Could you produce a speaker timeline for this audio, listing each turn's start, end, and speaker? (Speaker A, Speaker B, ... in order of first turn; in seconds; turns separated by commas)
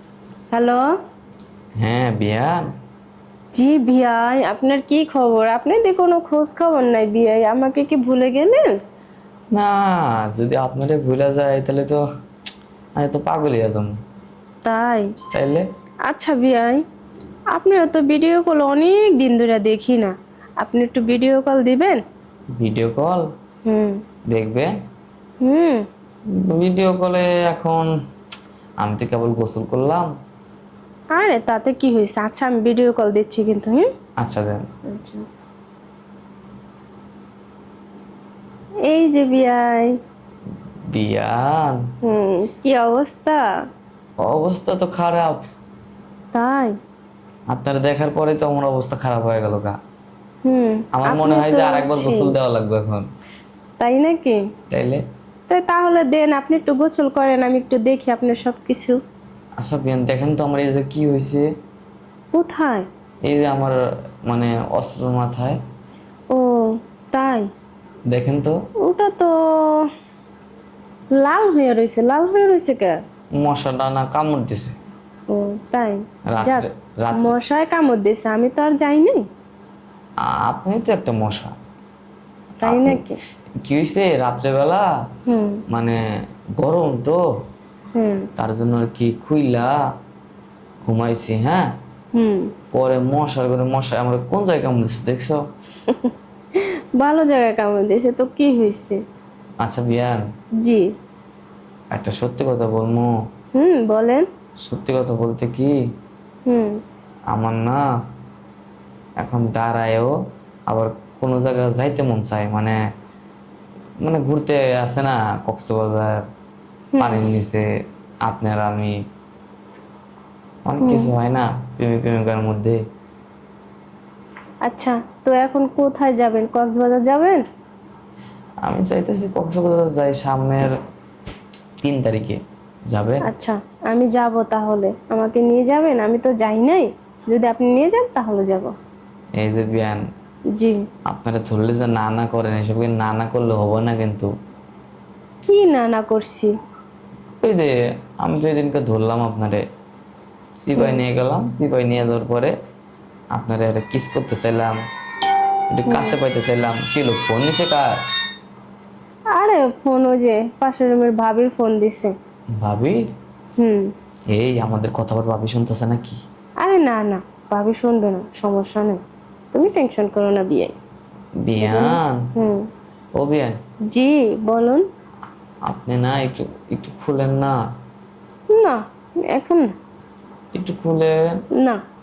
Speaker A: 0.5-0.9, Speaker B: 1.8-2.7, Speaker A: 3.5-8.7, Speaker B: 9.5-12.0, Speaker B: 13.0-13.9, Speaker A: 14.6-15.1, Speaker B: 15.3-15.7, Speaker A: 16.1-16.8, Speaker A: 17.5-22.0, Speaker B: 22.6-23.3, Speaker A: 23.7-24.0, Speaker B: 24.3-24.7, Speaker A: 25.4-25.9, Speaker B: 26.4-27.9, Speaker B: 28.8-30.1, Speaker A: 31.1-33.9, Speaker B: 34.2-34.6, Speaker A: 34.9-35.2, Speaker A: 38.9-40.0, Speaker B: 40.9-41.8, Speaker A: 42.0-43.4, Speaker B: 44.2-45.4, Speaker A: 46.3-46.8, Speaker B: 47.5-49.8, Speaker A: 50.5-52.3, Speaker B: 51.0-53.1, Speaker A: 53.8-54.4, Speaker B: 54.7-55.0, Speaker A: 55.5-59.0, Speaker B: 59.6-61.5, Speaker A: 62.3-62.9, Speaker B: 63.3-65.6, Speaker A: 66.3-67.5, Speaker B: 68.1-68.6, Speaker A: 68.8-69.9, Speaker A: 71.1-73.0, Speaker B: 73.4-74.8, Speaker A: 75.3-79.2, Speaker B: 76.3-77.3, Speaker B: 80.2-81.5, Speaker A: 82.6-83.2, Speaker B: 82.6-83.0, Speaker B: 83.7-84.9, Speaker A: 85.3-85.6, Speaker B: 85.7-86.0, Speaker B: 86.6-87.2, Speaker A: 88.0-88.3, Speaker B: 88.4-89.7, Speaker B: 90.8-91.7, Speaker A: 92.2-92.5, Speaker B: 92.7-95.4, Speaker A: 95.9-99.0, Speaker B: 99.6-100.2, Speaker A: 100.6-100.9, Speaker B: 101.9-103.1, Speaker A: 103.6-104.3, Speaker B: 104.7-105.7, Speaker A: 106.5-106.8, Speaker B: 107.3-107.8, Speaker B: 109.2-110.1, Speaker B: 110.7-112.8, Speaker B: 114.0-116.2, Speaker A: 117.0-117.3, Speaker B: 117.0-117.6, Speaker B: 118.3-119.0, Speaker B: 120.7-122.8, Speaker A: 120.8-121.1, Speaker A: 124.7-127.4, Speaker B: 128.7-130.7, Speaker B: 131.8-133.2, Speaker A: 133.2-138.7, Speaker B: 139.4-140.0, Speaker A: 140.6-140.8, Speaker B: 141.1-144.3, Speaker A: 145.5-146.5, Speaker B: 147.4-149.6, Speaker B: 150.6-152.5, Speaker A: 150.8-151.0, Speaker B: 153.3-154.8, Speaker B: 155.8-157.9, Speaker A: 155.9-156.2, Speaker A: 159.4-162.1, Speaker B: 162.6-163.0, Speaker A: 163.6-163.9, Speaker B: 164.3-166.2, Speaker A: 166.6-169.0, Speaker A: 169.5-170.8, Speaker B: 171.4-172.2, Speaker A: 171.6-172.7, Speaker B: 173.2-173.6, Speaker A: 173.9-174.8, Speaker B: 175.7-177.6, Speaker A: 178.5-178.8, Speaker A: 179.3-179.7, Speaker B: 180.6-181.2